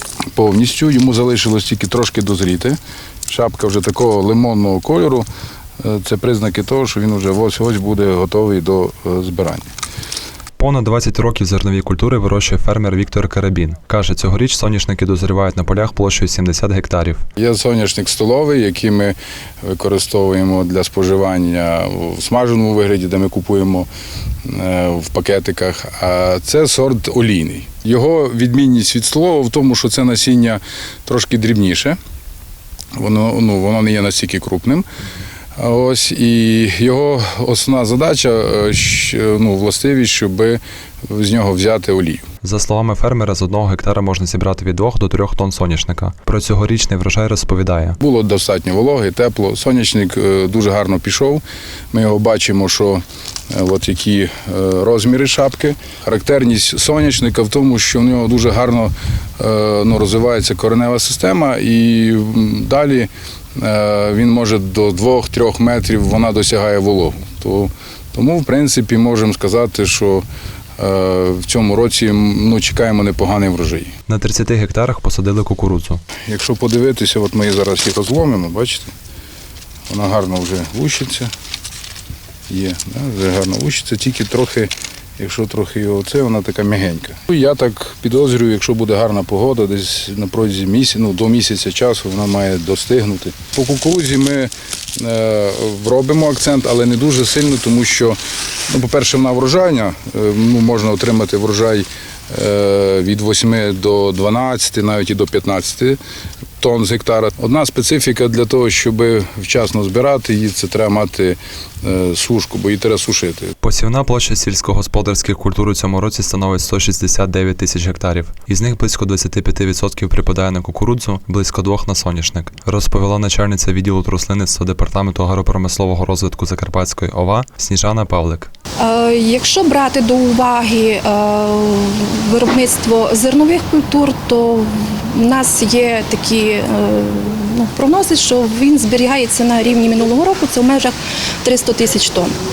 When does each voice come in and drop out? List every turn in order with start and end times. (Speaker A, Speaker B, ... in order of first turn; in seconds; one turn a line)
Speaker A: 0.3-5.2
Speaker A: 5.8-9.7
Speaker B: 10.6-17.2
Speaker A: 17.4-23.9
Speaker A: 24.4-32.0
Speaker A: 32.9-34.9
Speaker A: 35.5-42.2
Speaker B: 42.4-48.0
Speaker A: 48.0-70.2
Speaker A: 70.8-73.9
Speaker B: 74.1-76.0
Speaker A: 76.3-78.9
Speaker A: 79.9-81.3
Speaker A: 82.5-98.2
Speaker A: 98.7-106.0
Speaker A: 106.6-113.5
Speaker B: 113.6-128.5
Speaker C: 128.8-142.3